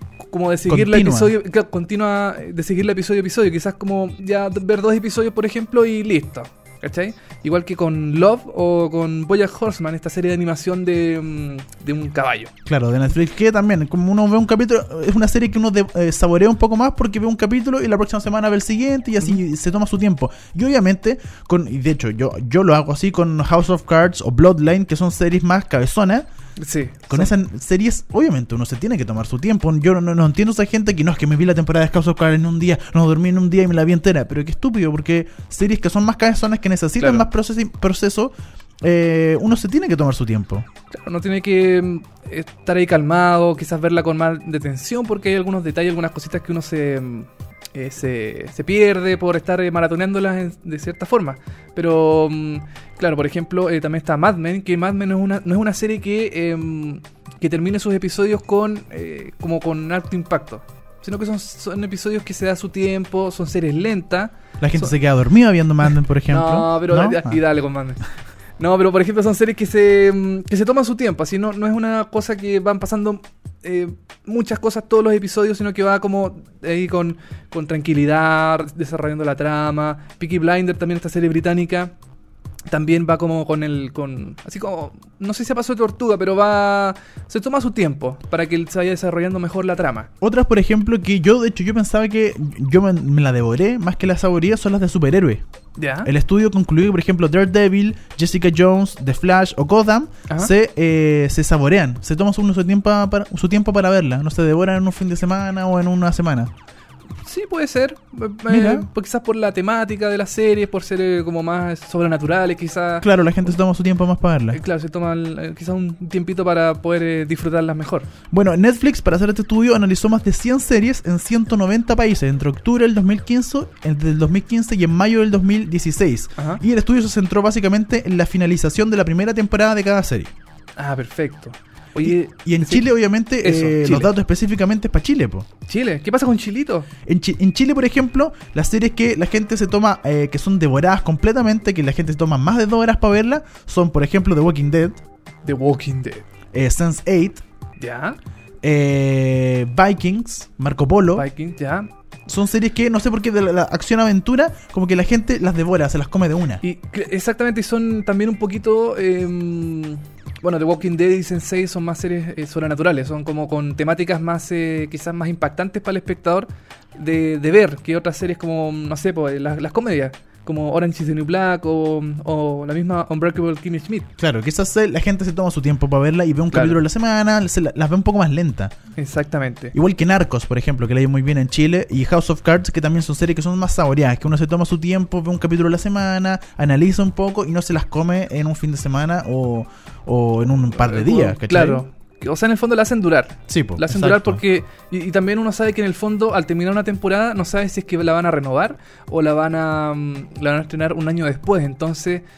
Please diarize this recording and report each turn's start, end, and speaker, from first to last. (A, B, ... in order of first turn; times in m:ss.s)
0:00.2-0:12.5 A
0:00.7-0:01.3 B
0:12.6-0:26.3 B
0:26.6-0:27.3 A
0:27.1-0:40.6 B
0:37.0-0:37.3 A
0:40.9-1:04.9 A
1:04.6-1:07.4 B
1:06.3-1:08.0 A
1:08.6-1:21.9 A
1:22.7-1:30.1 A
1:30.2-1:35.4 B
1:35.8-1:36.1 A
1:36.0-1:46.5 B
1:47.2-1:53.1 A
1:48.5-1:48.9 B
1:53.0-1:54.6 B
1:54.5-1:58.1 A
1:58.3-2:10.3 B
2:10.8-2:12.8 A
2:12.0-2:15.5 B
2:13.4-2:14.1 A
2:15.7-2:16.9 A
2:17.0-2:25.0 B
2:25.4-2:26.2 A
2:26.5-2:27.4 B
2:27.8-2:28.2 A
2:28.6-2:31.3 B
2:31.1-2:31.9 A
2:32.3-2:36.6 B
2:36.6-2:54.1 A
2:54.2-2:58.7 B
2:56.5-2:56.8 A
2:59.0-2:59.7 A
2:59.7-3:11.8 B
3:10.7-3:22.2 A
3:13.5-3:14.4 B